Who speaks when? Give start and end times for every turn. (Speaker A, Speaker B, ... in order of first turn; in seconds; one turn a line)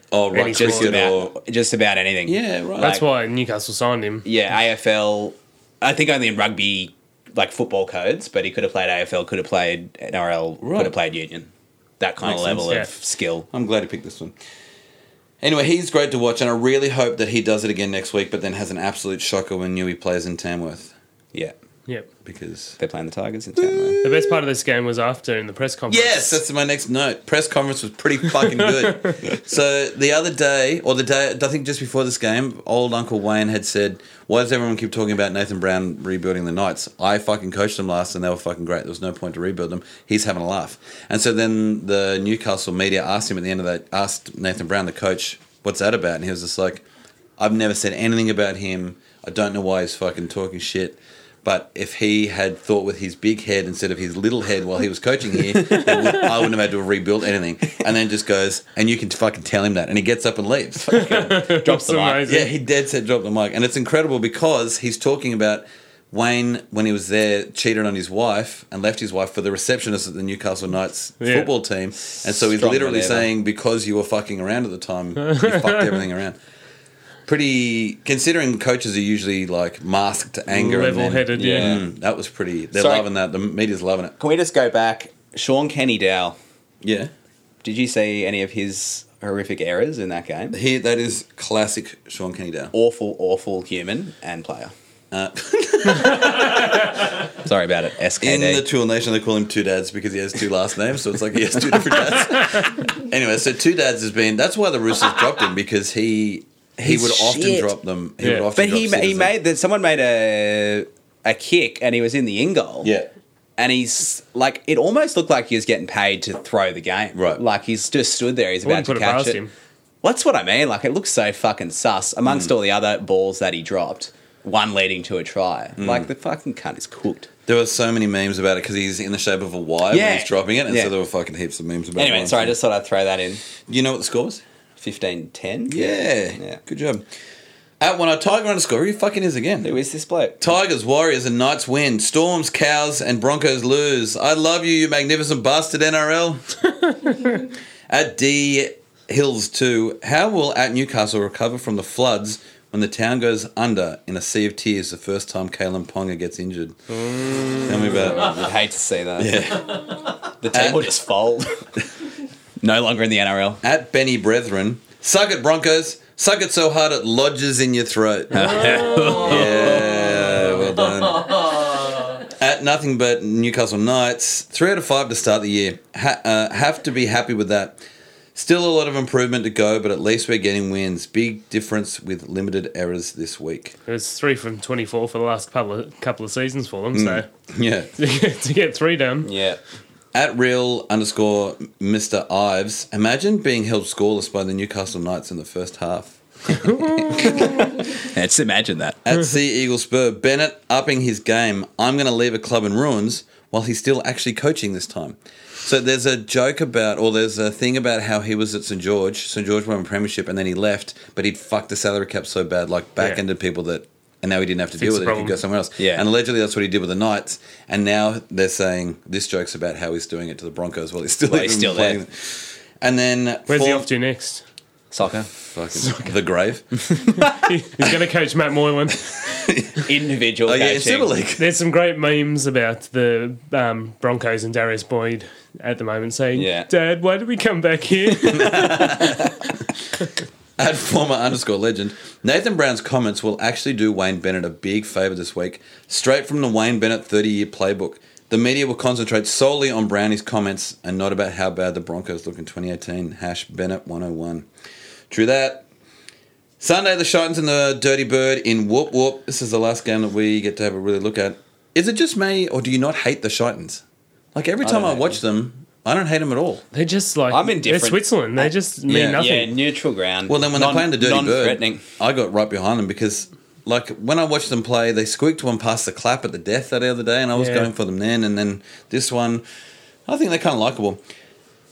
Speaker A: 0.1-1.3
Speaker B: 0.3-1.0
Speaker C: 0.3-3.0
Speaker A: 2.3-3.0
Speaker B: 2.8-4.2
Speaker C: 4.2-11.5
Speaker A: 10.6-10.9
Speaker C: 12.0-13.5
Speaker A: 12.2-12.8
Speaker A: 13.5-14.3
Speaker A: 15.4-20.9
Speaker A: 22.2-22.8
Speaker C: 22.8-24.0
Speaker A: 23.6-24.4
Speaker B: 24.0-26.4
Speaker A: 25.9-46.8
Speaker B: 28.7-29.2
Speaker A: 47.4-61.0
Speaker C: 60.8-62.3
Speaker B: 61.0-62.5
Speaker A: 62.2-76.4
Speaker B: 71.2-71.5
Speaker C: 72.3-73.3
Speaker B: 75.2-75.9
Speaker A: 77.3-84.2
Speaker B: 80.5-81.8
Speaker C: 81.3-81.8
Speaker C: 82.7-83.1
Speaker C: 84.2-86.4
Speaker A: 86.8-87.1
Speaker C: 87.6-90.6
Speaker A: 90.5-92.7
Speaker C: 92.7-94.7
Speaker A: 95.1-97.0
Speaker C: 97.3-98.6
Speaker A: 98.2-109.3
Speaker C: 106.8-107.7
Speaker C: 108.5-112.9
Speaker A: 112.8-113.1
Speaker C: 113.6-119.4
Speaker A: 117.1-117.4
Speaker B: 118.6-119.5
Speaker C: 120.0-127.3
Speaker A: 125.8-126.1
Speaker A: 127.5-132.6
Speaker C: 129.9-130.9
Speaker C: 132.0-133.4
Speaker A: 133.6-134.4
Speaker C: 134.8-136.6
Speaker A: 135.7-137.1
Speaker A: 137.8-139.7
Speaker C: 139.6-140.4
Speaker A: 140.4-146.4
Speaker A: 147.9-156.8
Speaker C: 157.6-159.6
Speaker A: 157.6-158.5
Speaker A: 159.2-160.9
Speaker C: 160.3-161.7
Speaker C: 162.6-163.6
Speaker A: 163.6-171.4
Speaker C: 168.3-170.7
Speaker A: 172.3-177.8
Speaker A: 178.3-183.8
Speaker B: 183.9-187.3
Speaker A: 186.9-187.9
Speaker B: 188.0-189.3
Speaker C: 189.2-189.6
Speaker A: 190.1-197.5
Speaker C: 197.9-199.0
Speaker A: 199.1-223.9
Speaker B: 214.8-215.4
Speaker C: 215.8-216.1
Speaker C: 221.3-222.0
Speaker B: 223.5-224.4
Speaker C: 224.9-225.3
Speaker A: 225.0-227.1
Speaker B: 227.2-229.5
Speaker A: 229.3-229.8
Speaker C: 229.8-231.1
Speaker A: 230.5-231.5
Speaker B: 231.4-239.3
Speaker C: 236.3-236.7
Speaker A: 238.3-239.2
Speaker A: 240.6-254.5
Speaker A: 255.1-255.7
Speaker A: 256.6-263.8
Speaker A: 264.3-266.6
Speaker C: 264.6-265.2
Speaker B: 266.7-269.5
Speaker C: 267.3-271.8
Speaker A: 268.9-269.2
Speaker A: 270.3-279.4
Speaker B: 277.4-277.7
Speaker A: 280.1-281.0